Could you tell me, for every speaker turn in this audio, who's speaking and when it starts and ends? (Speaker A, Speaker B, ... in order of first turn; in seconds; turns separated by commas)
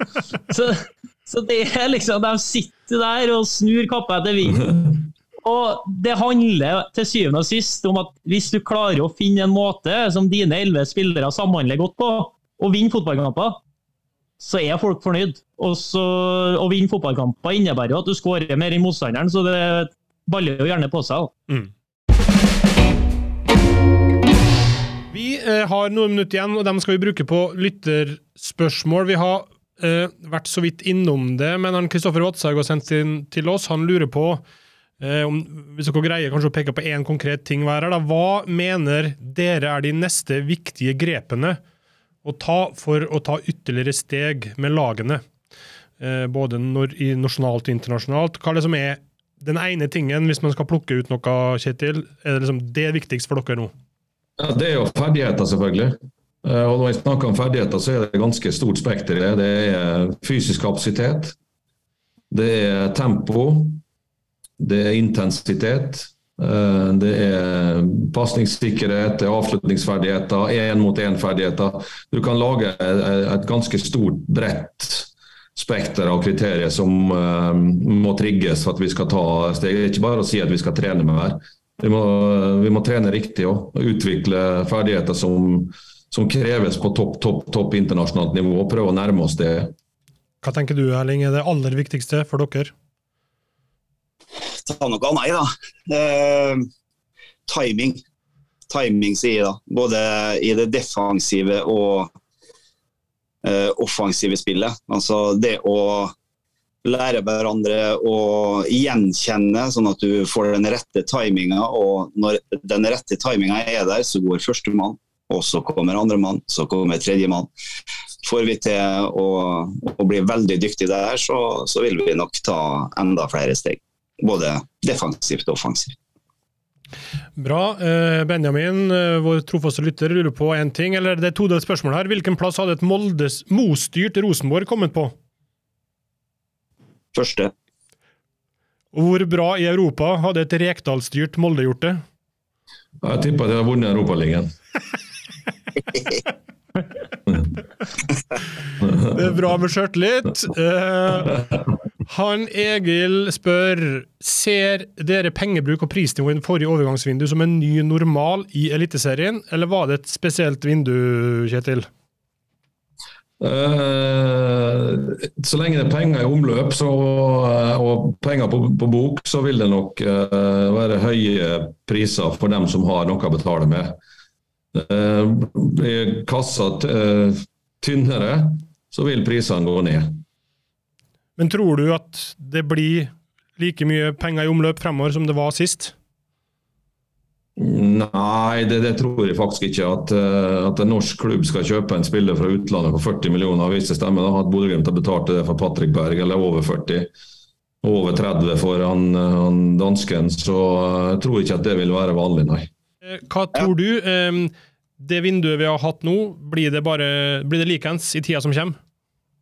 Speaker A: 0.5-13.6, Speaker A: 14.4-21.3, Speaker B: 25.1-34.4, Speaker B: 35.0-41.6, Speaker B: 42.2-45.2, Speaker B: 46.0-53.7, Speaker C: 54.4-61.4, Speaker C: 62.3-63.8, Speaker C: 64.6-89.7, Speaker B: 90.4-92.7, Speaker D: 94.6-96.7, Speaker D: 97.5-98.0, Speaker D: 98.7-102.1, Speaker D: 103.4-106.1, Speaker D: 106.8-117.5, Speaker D: 118.2-126.0, Speaker B: 127.4-135.1, Speaker D: 137.1-137.5, Speaker B: 138.9-142.0, Speaker C: 143.0-144.5, Speaker B: 149.0-151.4, Speaker B: 152.1-161.9, Speaker C: 163.4-174.0, Speaker C: 174.7-180.2, Speaker B: 181.4-185.9, Speaker C: 187.6-197.1, Speaker C: 197.8-202.7, Speaker B: 203.1-208.8